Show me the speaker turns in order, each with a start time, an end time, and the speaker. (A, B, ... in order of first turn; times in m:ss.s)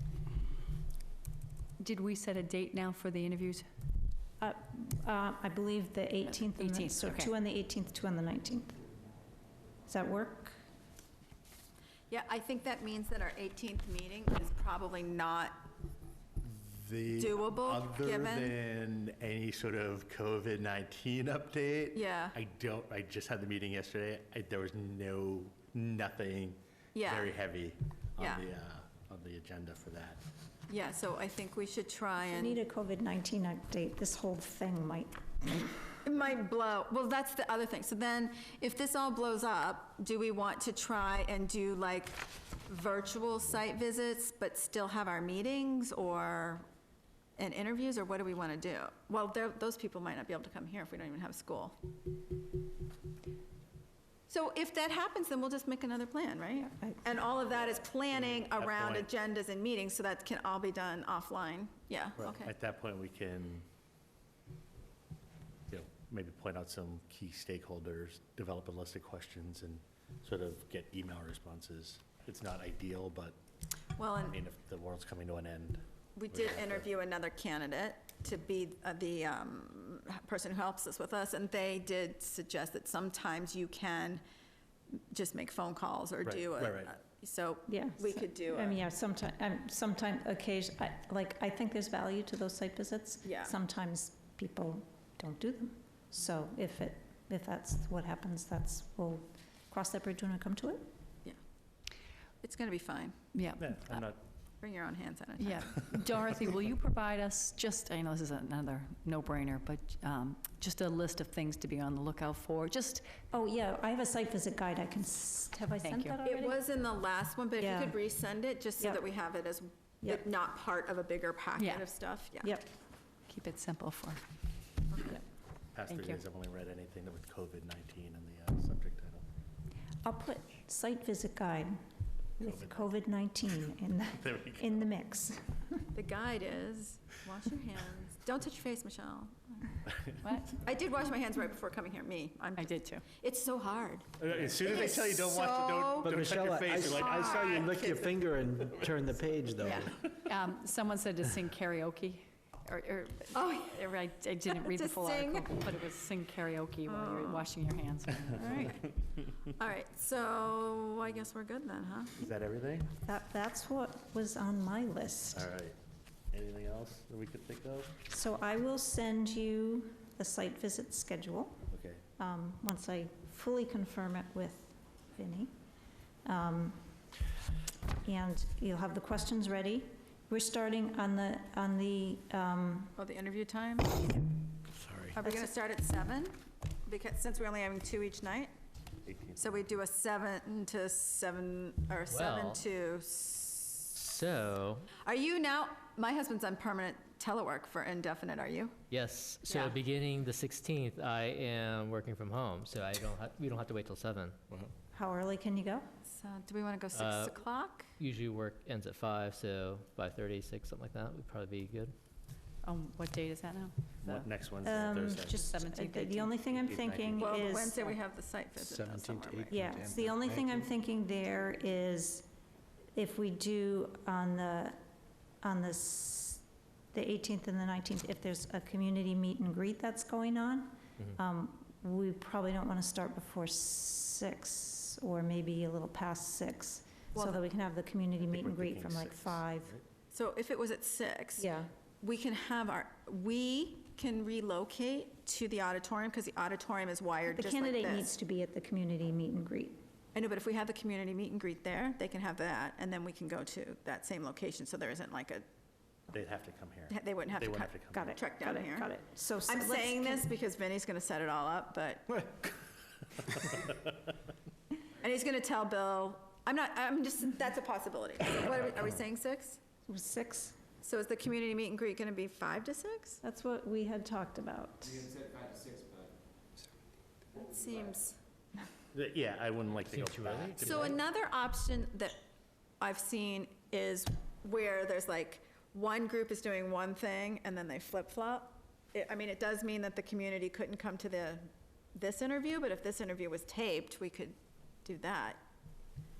0:01.8-0:03.7 A
0:04.4-0:08.8 B
0:06.4-0:07.4 A
0:09.9-0:10.6 B
0:12.1-0:15.7 C
0:16.4-0:30.2 D
0:17.1-0:18.6 C
0:21.9-0:22.4 C
0:26.9-0:27.4 C
0:28.2-0:28.5 C
0:30.7-0:32.6 C
0:32.2-0:35.9 B
0:36.0-0:46.6 C
0:47.4-0:51.8 C
0:54.3-1:02.5 C
0:56.6-0:57.0 B
0:57.5-0:59.1 D
1:02.2-1:03.6 D
1:05.7-1:13.4 D
1:14.0-1:14.4 C
1:14.2-1:16.8 D
1:16.2-1:24.2 C
1:25.1-1:28.8 C
1:26.2-1:26.9 D
1:27.7-1:40.8 B
1:33.2-1:33.5 C
1:42.4-1:43.2 C
1:43.3-1:44.0 A
1:43.6-1:44.2 D
1:44.6-1:45.9 C
1:45.4-1:53.1 A
1:53.3-1:56.6 B
1:55.8-1:56.2 A
1:56.2-2:02.5 C
1:57.6-1:58.0 B
2:01.6-2:01.9 A
2:02.4-2:02.7 B
2:03.3-2:04.2 A
2:05.7-2:09.2 D
2:05.8-2:06.2 A
2:10.0-2:11.8 B
2:12.4-2:15.8 B
2:12.4-2:12.9 D
2:14.1-2:14.9 D
2:15.9-2:19.7 C
2:20.2-2:20.6 A
2:20.6-2:26.2 C
2:22.5-2:23.0 A
2:24.2-2:27.9 D
2:25.9-2:30.1 E
2:27.0-2:28.2 C
2:29.6-2:38.8 A
2:33.3-2:33.9 C
2:34.4-2:36.0 C
2:36.8-2:37.5 C
2:38.3-2:38.8 C
2:39.5-2:42.2 C
2:42.2-2:42.9 D
2:43.0-2:45.5 B
2:45.3-2:45.8 D
2:46.3-2:48.0 D
2:48.1-2:55.5 B
2:51.7-2:52.0 D
2:56.2-2:57.0 B
2:58.0-3:02.9 B
3:03.0-3:04.0 C
3:05.1-3:08.5 C
3:05.2-3:05.5 B
3:09.0-3:09.4 D
3:09.4-3:13.9 C
3:12.1-3:12.6 F
3:14.0-3:14.9 F
3:15.0-3:18.8 C
3:18.9-3:24.4 F
3:19.4-3:19.8 C
3:24.9-3:25.8 B
3:26.0-3:27.9 C
3:26.9-3:27.4 F
3:28.0-3:31.9 F
3:32.6-3:34.3 A
3:34.0-3:35.4 D
3:34.6-3:37.8 B
3:35.4-3:36.4 A
3:36.5-3:37.4 D
3:37.2-3:39.5 C
3:38.6-3:40.6 E
3:39.5-3:42.3 B
3:42.9-3:44.8 B
3:45.4-3:59.7 B
3:57.1-3:57.5 C
3:58.2-3:59.8 D
4:00.1-4:08.1 C
4:01.4-4:01.7 B
4:07.3-4:09.8 B
4:10.1-4:15.4 C
4:16.1-4:18.1 D
4:16.9-4:18.9 C
4:17.9-4:20.2 B
4:19.4-4:22.2 C
4:25.0-4:29.6 C
4:29.9-4:30.6 B
4:30.8-4:33.2 C
4:33.2-4:35.2 B
4:37.4-4:38.2 C
4:38.9-4:41.0 D
4:39.9-4:41.0 F
4:40.6-4:42.2 C
4:42.8-4:55.4 C